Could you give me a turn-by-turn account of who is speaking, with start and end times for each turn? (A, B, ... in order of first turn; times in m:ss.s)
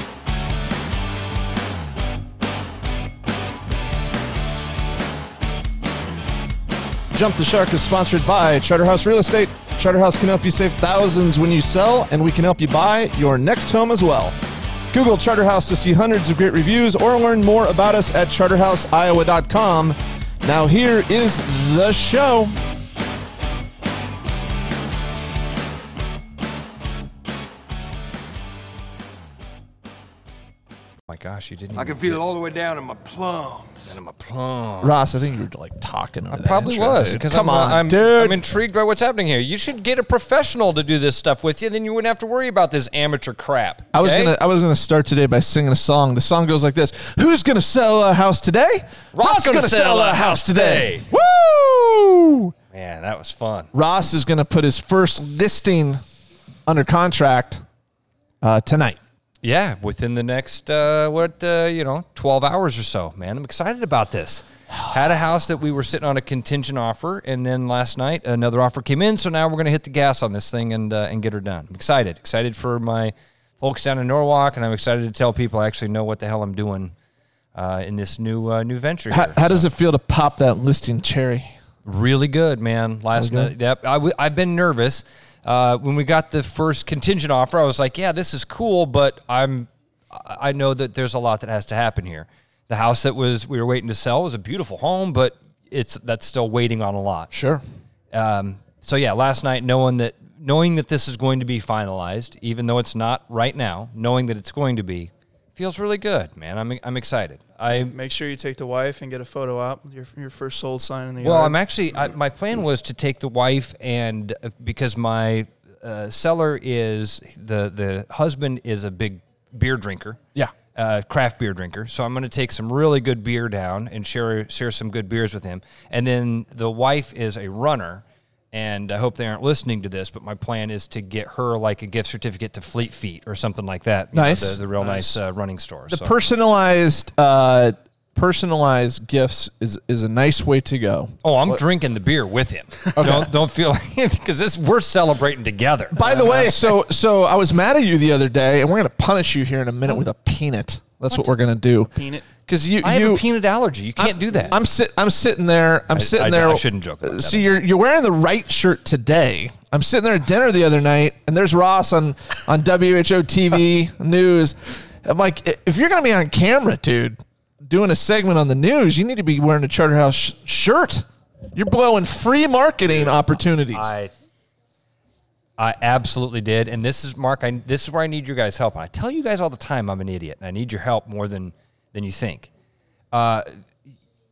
0:07.1-0:14.4 A
0:14.9-0:22.5 A
0:31.1-0:32.2 B
0:31.8-0:34.0 C
0:33.9-0:35.0 B
0:34.8-0:38.4 A
0:36.3-0:44.4 B
0:43.9-0:52.5 A
0:49.1-0:51.1 B
0:52.7-0:53.7 B
0:53.7-0:56.0 A
0:56.6-0:57.6 A
0:58.4-0:59.0 A
0:59.4-1:16.9 B
1:17.5-1:19.7 B
1:19.1-1:21.5 A
1:21.8-1:37.3 B
1:23.1-1:23.5 A
1:37.3-1:37.6 A
1:38.1-1:47.9 B
1:47.9-1:51.6 D
1:51.2-2:00.2 B
2:00.7-2:16.1 B
2:14.1-2:15.2 A
2:15.9-2:21.6 A
2:21.2-2:26.3 B
2:23.0-2:23.3 A
2:25.9-2:33.2 A
2:26.0-2:26.6 D
2:31.9-2:32.2 D
2:32.8-2:34.6 B
2:34.0-2:53.9 A
2:35.9-2:37.5 B
2:53.7-2:54.1 B
2:55.6-3:02.5 B
3:03.1-3:03.6 B